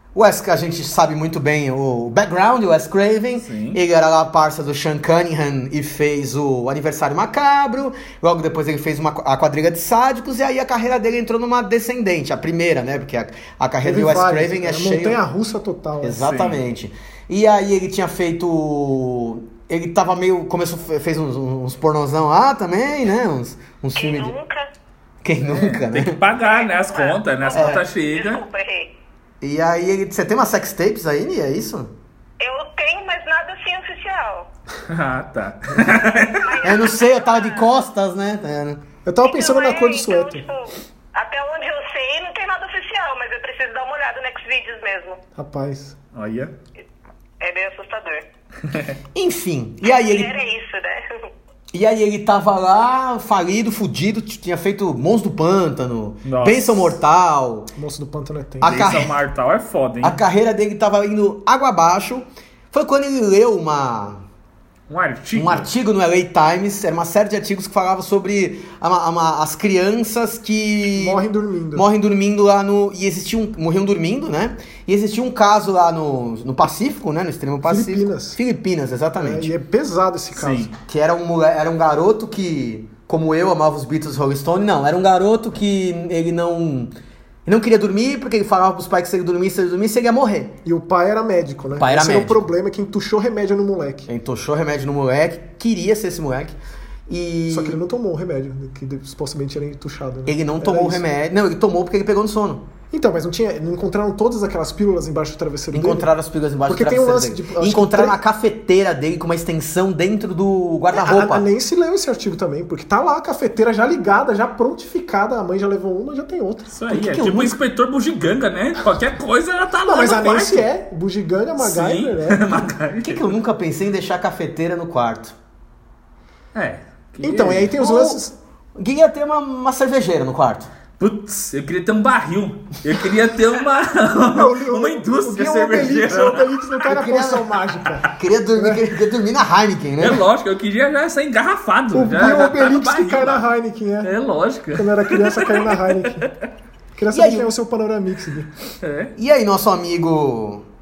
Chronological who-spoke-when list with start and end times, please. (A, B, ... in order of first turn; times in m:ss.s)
0:00.2-0:15.2 A
0:03.4-0:03.8 B
0:13.8-0:16.3 C
0:16.0-0:24.3 A
0:16.2-0:16.6 B
0:24.0-0:24.7 D
0:25.2-0:26.2 A
0:25.4-0:28.4 B
0:26.4-0:28.9 D
0:27.5-0:27.8 A
0:29.4-0:31.9 A
0:32.4-0:34.5 D
0:34.9-0:36.7 B
0:36.3-0:37.7 D
0:36.6-0:38.8 A
0:39.0-0:40.4 C
0:39.2-0:45.2 D
0:45.4-0:46.0 C
0:46.1-0:46.5 B
0:47.4-0:48.3 D
0:48.7-0:49.0 B
0:49.2-0:50.3 A
0:49.8-0:51.3 D
0:51.7-0:57.7 A
0:56.2-0:57.0 B
0:57.8-0:58.8 C
0:58.6-0:59.2 A
0:58.6-1:00.2 B
1:00.0-1:04.2 A
1:04.9-1:05.7 B
1:05.4-1:11.2 A
1:10.9-1:11.9 C
1:11.7-1:19.5 A
1:17.7-1:18.4 C
1:19.2-1:20.7 C
1:20.3-1:20.7 B
1:20.9-1:26.9 A
1:27.5-1:30.6 A
1:30.6-1:34.1 C
1:31.7-1:32.5 A
1:34.1-1:36.6 A
1:37.1-1:37.8 A
1:37.5-1:41.0 C
1:40.3-1:42.7 A
1:42.9-1:46.1 C
1:45.7-1:51.4 A
1:46.7-1:48.2 C
1:50.9-1:56.7 C
1:56.7-2:00.7 B
1:56.9-1:57.6 A
1:59.8-2:02.5 C
2:01.6-2:03.2 B
2:03.0-2:05.4 A
2:06.5-2:07.8 B
2:07.2-2:08.4 C
2:07.8-2:08.2 A
2:08.8-2:10.7 A
2:11.0-2:16.8 B
2:14.3-2:18.8 C
2:16.9-2:17.5 A
2:18.1-2:20.2 A
2:20.0-2:23.5 B
2:21.9-2:24.1 C
2:24.0-2:26.3 B
2:24.8-2:26.3 C
2:27.0-2:28.5 C
2:27.1-2:27.5 A
2:28.8-2:29.1 B
2:29.2-2:30.7 A